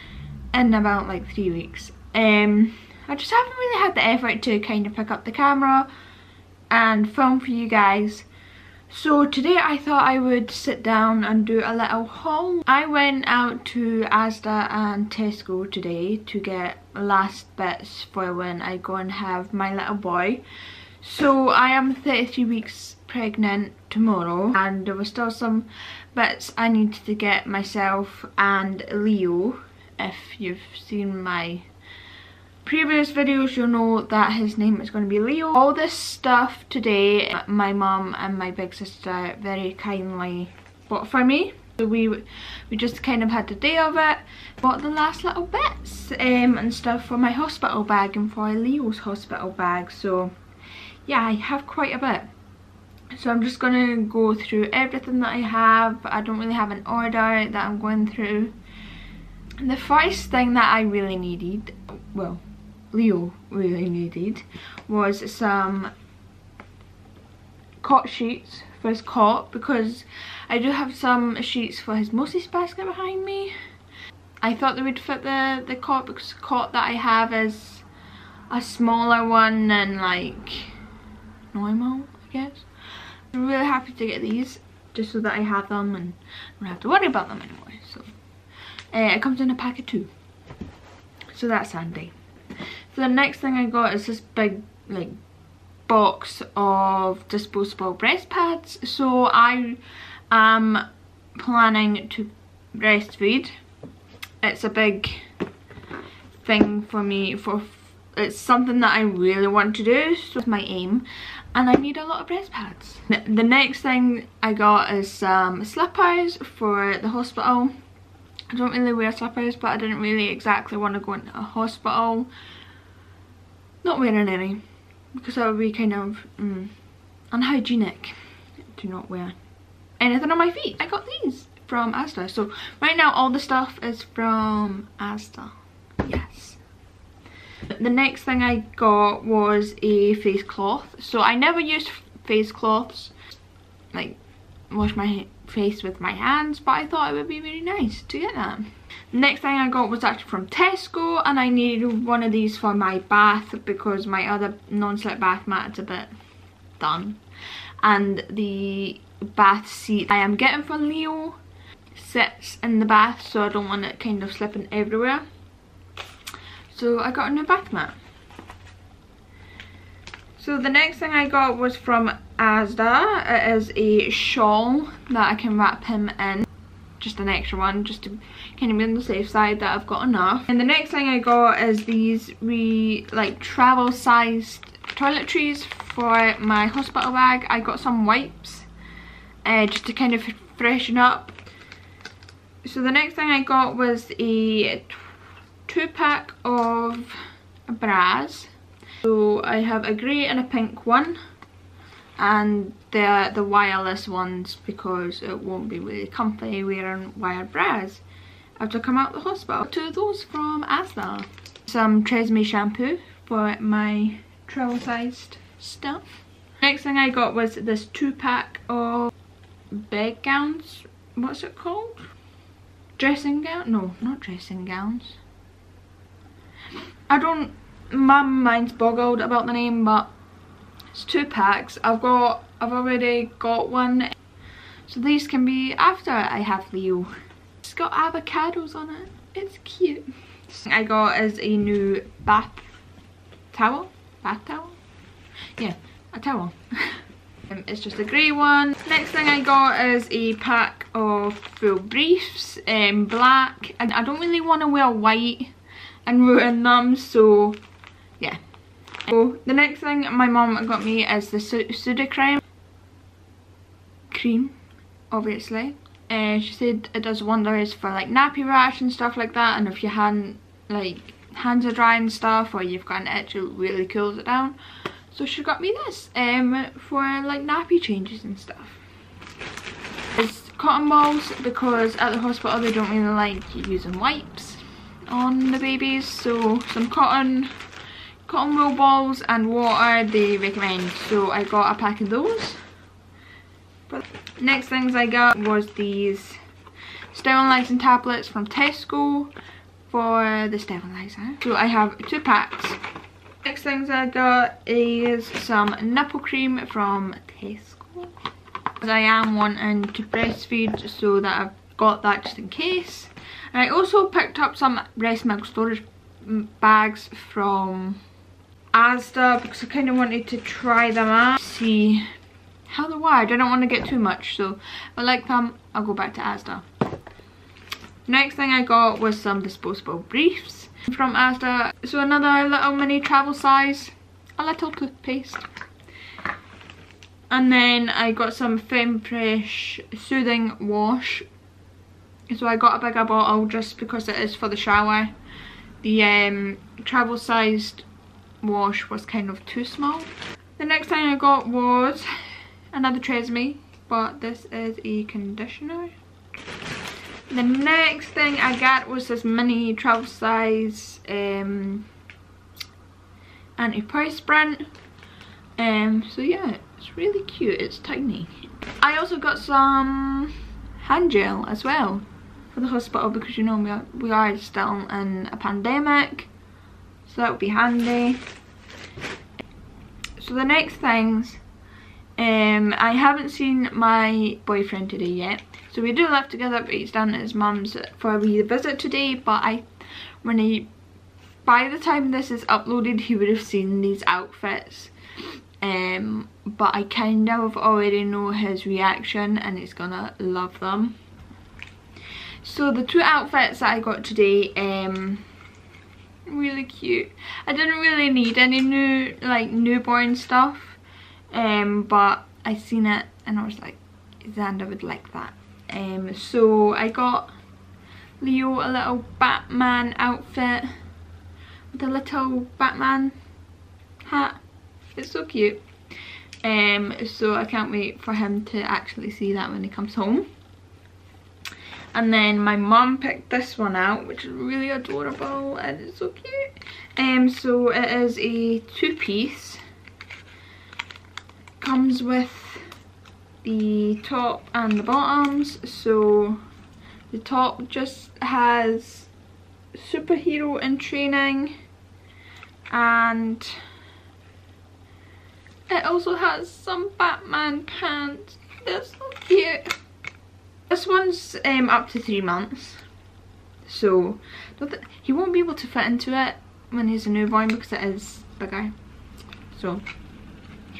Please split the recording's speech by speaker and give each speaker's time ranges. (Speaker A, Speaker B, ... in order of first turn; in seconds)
Speaker A: 0.5-5.9, 6.7-8.3, 8.9-20.4, 21.0-31.7, 32.6-50.3, 51.0-52.3, 53.1-58.5, 59.6-65.9, 67.8-73.5, 74.4-77.8, 78.5-80.7, 81.5-82.7, 83.3-88.1, 88.9-90.1, 91.3-92.1, 92.9-95.2, 95.9-100.8, 101.3-103.5, 104.4-105.3, 106.4-117.7, 118.5-122.3, 123.8-124.6, 125.1-126.7, 127.3-128.2, 128.7-129.3, 130.0-136.6, 137.7-143.1, 143.9-144.2, 144.7-156.1, 156.8-157.2, 157.8-161.4, 161.9-165.2, 166.7-168.0, 170.4-176.5, 177.0-188.7, 189.4-191.4, 192.6-195.0, 195.7-198.5, 199.0-201.2, 202.2-208.0, 208.6-216.1, 216.6-219.1, 219.7-222.1, 223.0-225.2, 227.1-230.1, 230.9-234.1, 234.9-242.7, 243.5-244.8, 245.6-255.5, 256.1-257.6, 259.0-262.4, 264.1-264.6, 265.1-274.6, 275.1-278.8, 280.1-287.5, 288.2-292.6, 293.9-296.4, 297.1-299.3, 299.9-302.8, 303.4-308.1, 308.8-318.0, 318.7-322.1, 322.7-326.6, 328.1-335.4, 337.3-341.3, 342.3-345.1, 345.8-347.9, 348.4-352.1, 352.7-355.9, 357.3-361.9, 363.6-364.7, 365.6-376.3, 377.0-378.2, 380.2-381.4, 382.2-389.7, 390.2-390.7, 391.4-394.9, 395.6-401.0, 402.4-405.2, 406.2-410.8, 411.3-417.3, 418.2-420.7, 421.7-423.1, 424.0-424.4, 424.9-425.6, 426.4-430.3, 431.9-439.6, 441.6-442.7, 443.4-446.4, 447.1-449.1, 449.7-451.5, 452.7-453.6, 455.7-459.7, 460.7-462.8, 463.6-468.7, 469.5-469.8